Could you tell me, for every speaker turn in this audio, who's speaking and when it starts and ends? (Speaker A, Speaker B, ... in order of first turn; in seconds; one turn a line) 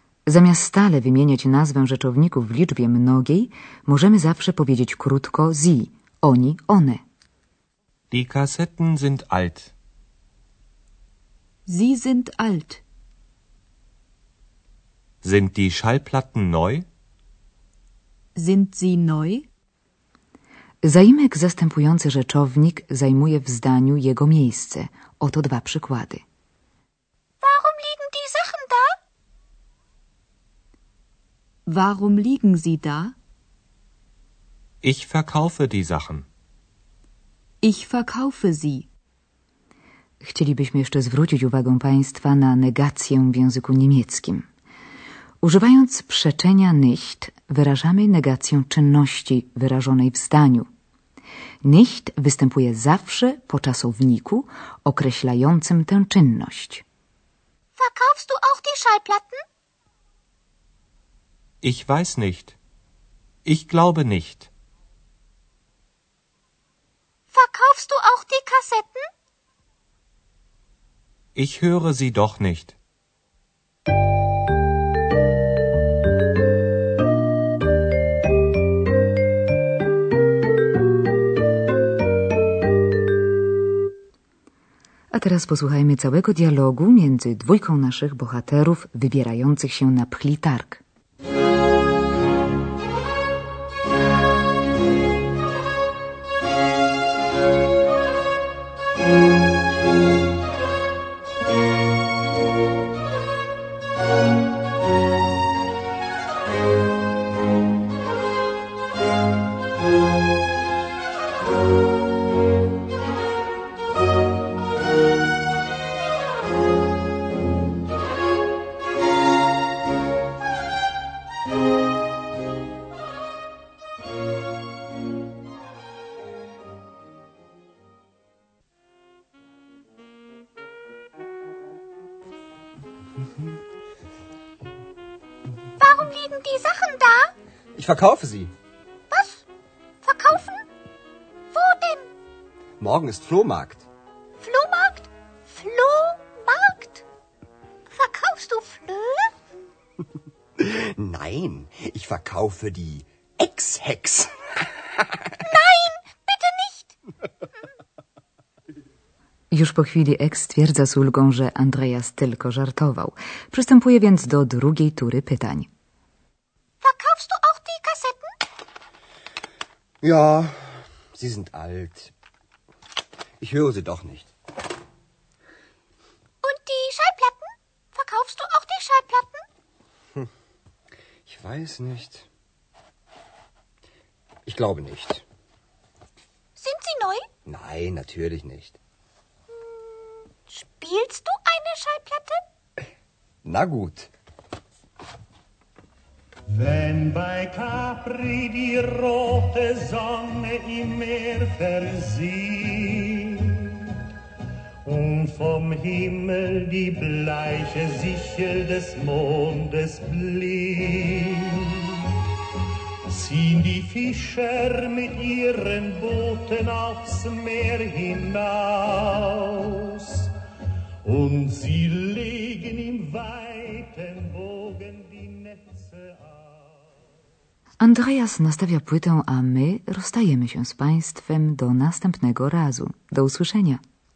Speaker A: 0.3-7.0
Speaker B: 8.1-9.7
Speaker C: 11.7-12.8
Speaker B: 15.2-16.9
Speaker C: 18.4-19.4
Speaker A: 20.8-26.2
Speaker D: 27.4-28.9
Speaker C: 31.7-33.1
Speaker B: 34.8-36.2
Speaker C: 37.6-38.9
Speaker A: 40.2-44.5
Speaker A: 45.4-50.7
Speaker A: 51.6-56.8
Speaker D: 57.8-59.4
Speaker B: 61.6-62.5
Speaker B: 63.4-64.5
Speaker D: 67.3-69.1
Speaker B: 71.3-72.8
Speaker A: 85.1-90.8
Speaker D: 135.8-137.3
Speaker E: 137.7-138.5
Speaker D: 139.1-139.4
Speaker D: 140.0-140.6
Speaker D: 141.5-142.1
Speaker E: 142.8-143.8
Speaker D: 144.4-147.0
Speaker D: 147.9-149.3
Speaker E: 150.6-154.5
Speaker D: 155.4-156.9
Speaker A: 159.5-165.7
Speaker D: 166.8-168.3
Speaker E: 170.0-172.1
Speaker E: 173.4-174.3
Speaker D: 176.4-179.4
Speaker E: 181.2-182.3
Speaker E: 184.4-185.2
Speaker D: 186.6-187.2
Speaker E: 187.4-188.8
Speaker D: 190.0-192.4
Speaker E: 193.4-194.1
Speaker F: 196.5-203.9
Speaker F: 204.8-212.1
Speaker F: 213.1-220.3
Speaker F: 221.0-226.5
Speaker A: 227.8-233.8